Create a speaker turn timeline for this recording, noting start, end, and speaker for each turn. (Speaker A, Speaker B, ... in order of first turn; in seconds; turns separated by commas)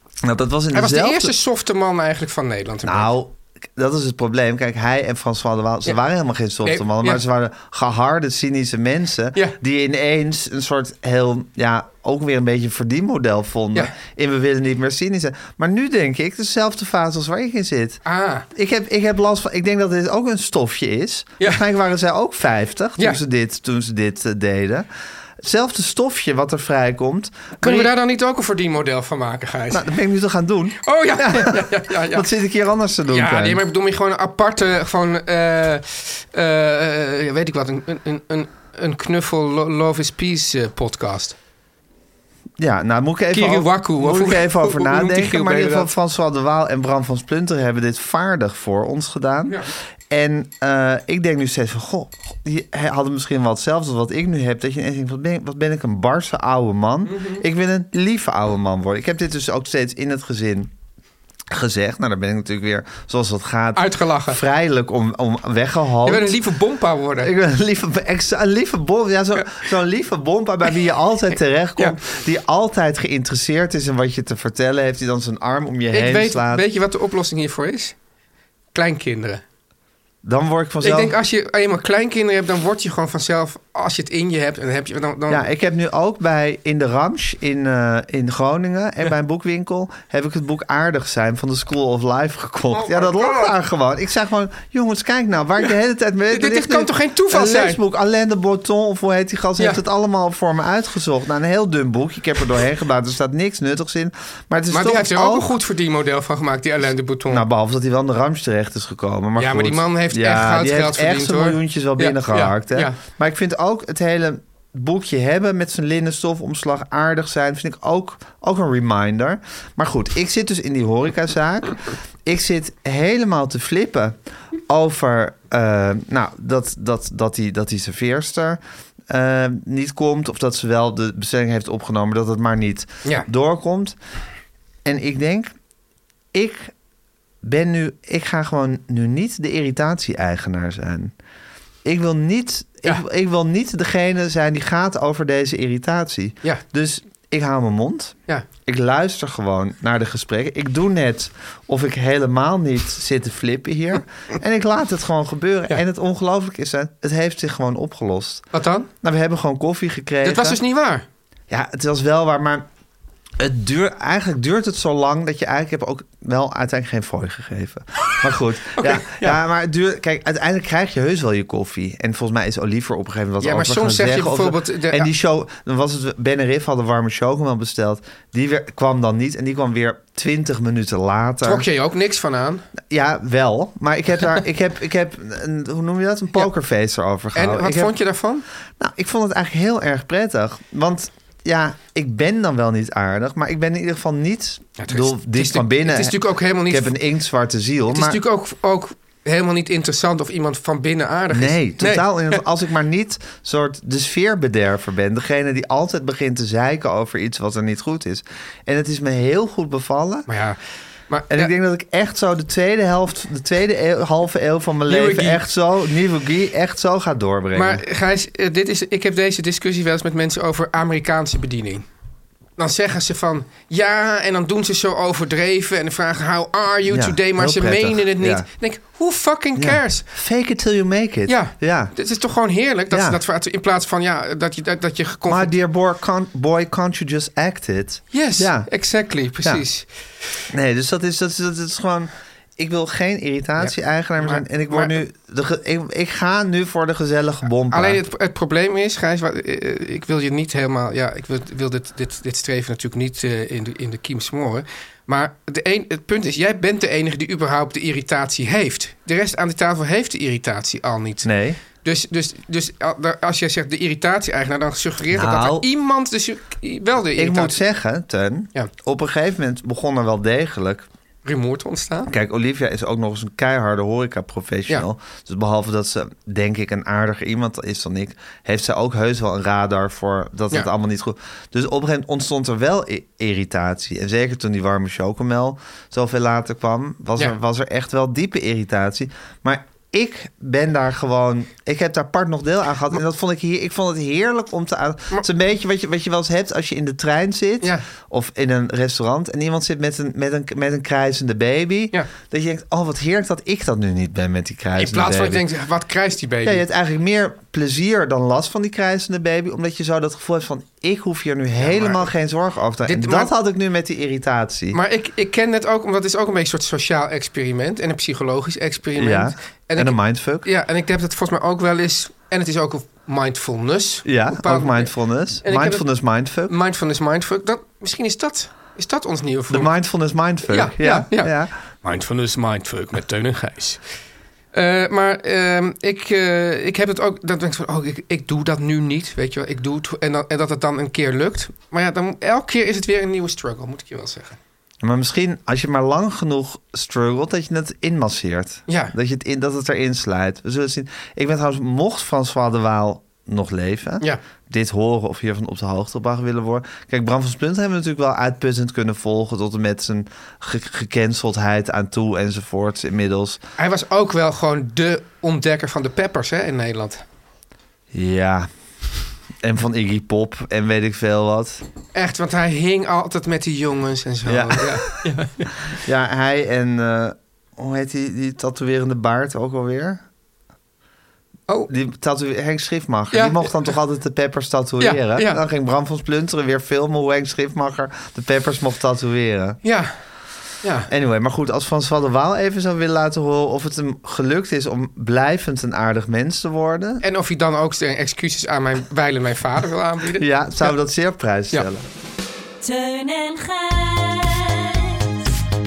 Speaker A: 0.2-1.3, Speaker B: 0.7-3.1, Speaker A: 2.8-18.0, Speaker B: 6.6-7.2, Speaker B: 18.1-18.5, Speaker A: 18.5-24.9, Speaker A: 25.4-27.9, Speaker B: 27.6-29.9, Speaker A: 29.7-33.6, Speaker B: 30.8-32.3, Speaker B: 33.1-41.4, Speaker A: 42.6-60.7, Speaker B: 43.3-45.9, Speaker B: 57.1-57.4, Speaker A: 61.5-66.3, Speaker B: 63.8-64.4, Speaker B: 66.0-67.3, Speaker A: 67.2-76.7, Speaker B: 75.9-78.0, Speaker B: 78.7-79.4, Speaker A: 80.2-81.2, Speaker B: 80.8-85.5, Speaker A: 85.3-105.5, Speaker B: 92.7-93.5, Speaker B: 96.3-97.8, Speaker B: 104.7-107.5, Speaker A: 107.3-134.0, Speaker B: 109.4-113.0, Speaker A: 134.8-135.5, Speaker A: 136.3-136.7, Speaker A: 137.4-141.1, Speaker A: 141.8-158.4, Speaker B: 158.5-158.9, Speaker A: 159.0-160.6, Speaker B: 160.2-161.1, Speaker A: 161.5-162.7, Speaker A: 163.4-181.7, Speaker B: 168.8-169.4, Speaker B: 173.4-175.1, Speaker B: 181.4-182.7, Speaker A: 182.9-187.9, Speaker B: 187.3-188.4, Speaker A: 188.8-198.2, Speaker B: 194.8-196.9, Speaker B: 197.9-202.4, Speaker A: 201.3-210.3, Speaker B: 210.3-210.6, Speaker B: 211.1-211.5, Speaker A: 211.3-217.8, Speaker B: 214.9-215.4, Speaker B: 217.6-221.8, Speaker B: 222.6-230.1, Speaker A: 226.9-228.5, Speaker A: 229.6-231.9, Speaker B: 231.3-235.5, Speaker A: 232.9-233.2, Speaker A: 235.3-238.7, Speaker B: 238.1-239.9, Speaker A: 240.5-248.0, Speaker B: 243.6-244.9, Speaker B: 247.7-261.3, Speaker A: 261.2-261.6, Speaker B: 261.8-267.6, Speaker A: 265.1-265.7, Speaker A: 267.1-270.9, Speaker B: 271.2-272.1, Speaker A: 272.1-305.4, Speaker B: 304.8-306.6, Speaker A: 306.4-314.8, Speaker B: 311.6-312.1, Speaker B: 312.9-313.3, Speaker B: 314.7-324.9, Speaker A: 318.9-320.5, Speaker A: 324.1-326.5, Speaker B: 325.4-325.9, Speaker B: 326.5-329.7, Speaker A: 329.5-331.5, Speaker B: 330.5-331.3, Speaker B: 331.8-333.8, Speaker B: 334.5-344.4, Speaker A: 344.8-363.4, Speaker B: 348.7-348.9, Speaker B: 363.6-367.0, Speaker A: 367.9-368.5, Speaker A: 369.4-371.6, Speaker B: 371.9-375.6, Speaker A: 374.3-374.8, Speaker A: 375.8-380.0, Speaker A: 381.7-389.6, Speaker B: 383.1-383.7, Speaker B: 384.8-385.4, Speaker B: 389.6-389.9, Speaker B: 390.6-390.9, Speaker A: 390.9-397.0, Speaker B: 397.0-400.7, Speaker A: 400.1-401.9, Speaker C: 402.6-405.4